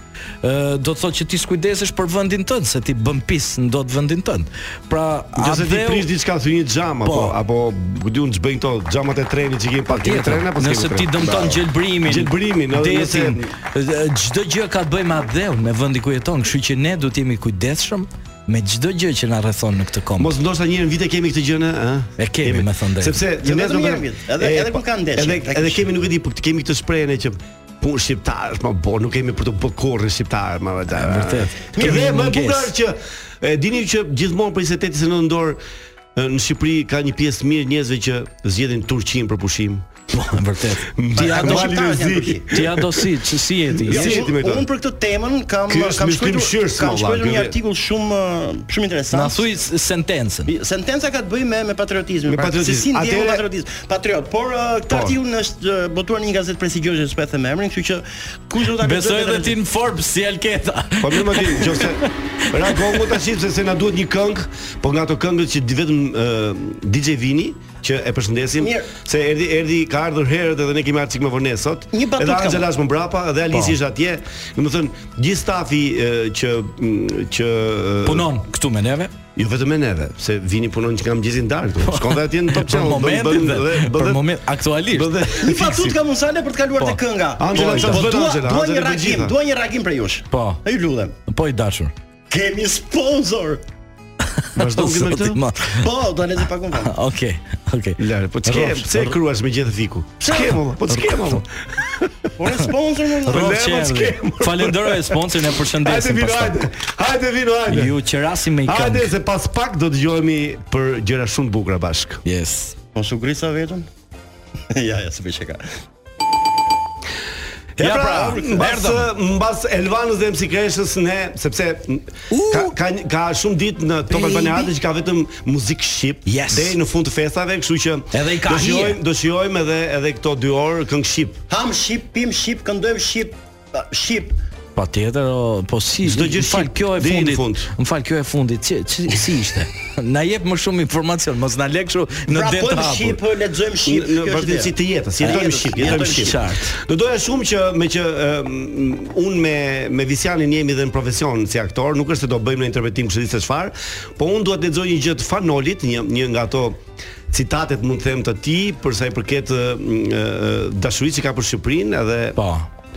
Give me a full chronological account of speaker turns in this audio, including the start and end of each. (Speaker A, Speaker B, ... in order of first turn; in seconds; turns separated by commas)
Speaker A: 0.4-6.1, Speaker B: 5.3-13.5, Speaker A: 7.0-7.3, Speaker A: 9.9-20.3, Speaker B: 20.2-35.6, Speaker A: 22.2-23.2, Speaker C: 23.4-25.9, Speaker A: 30.9-32.7, Speaker B: 36.1-39.9, Speaker A: 40.1-41.8, Speaker B: 40.9-43.1, Speaker C: 41.1-42.5, Speaker A: 42.5-44.2, Speaker B: 43.8-44.7, Speaker C: 43.9-49.5, Speaker B: 45.7-47.5, Speaker A: 49.1-50.5, Speaker C: 50.5-59.5, Speaker B: 52.2-53.4, Speaker B: 54.9-55.2, Speaker A: 58.8-62.0, Speaker B: 61.0-78.3, Speaker A: 62.6-63.0, Speaker C: 68.6-68.9, Speaker C: 71.9-72.7, Speaker A: 73.5-73.8, Speaker A: 78.0-79.1, Speaker B: 79.3-84.4, Speaker A: 81.8-85.9, Speaker B: 84.9-85.8, Speaker C: 85.4-91.2, Speaker B: 87.4-89.3, Speaker A: 87.5-88.1, Speaker A: 90.3-90.6, Speaker A: 91.3-91.9, Speaker C: 92.3-93.6, Speaker A: 94.4-95.9, Speaker B: 94.5-95.4, Speaker C: 95.8-96.9, Speaker A: 96.8-99.2, Speaker B: 98.0-102.1, Speaker C: 100.2-100.6, Speaker A: 100.9-101.4, Speaker C: 102.4-103.6, Speaker A: 103.3-106.7, Speaker B: 103.3-108.0, Speaker A: 107.7-109.1, Speaker B: 108.6-112.2, Speaker A: 112.2-112.7, Speaker C: 112.9-113.9, Speaker C: 114.7-115.6, Speaker B: 117.8-131.4, Speaker A: 117.8-119.0, Speaker C: 117.9-118.8, Speaker A: 122.3-122.7, Speaker A: 124.1-124.7, Speaker A: 126.2-126.8, Speaker A: 128.1-129.0, Speaker C: 131.5-134.4, Speaker A: 134.7-143.2, Speaker B: 136.0-137.7, Speaker C: 142.3-146.4, Speaker B: 143.8-156.8, Speaker A: 145.2-146.8, Speaker B: 157.3-162.4, Speaker A: 162.4-162.7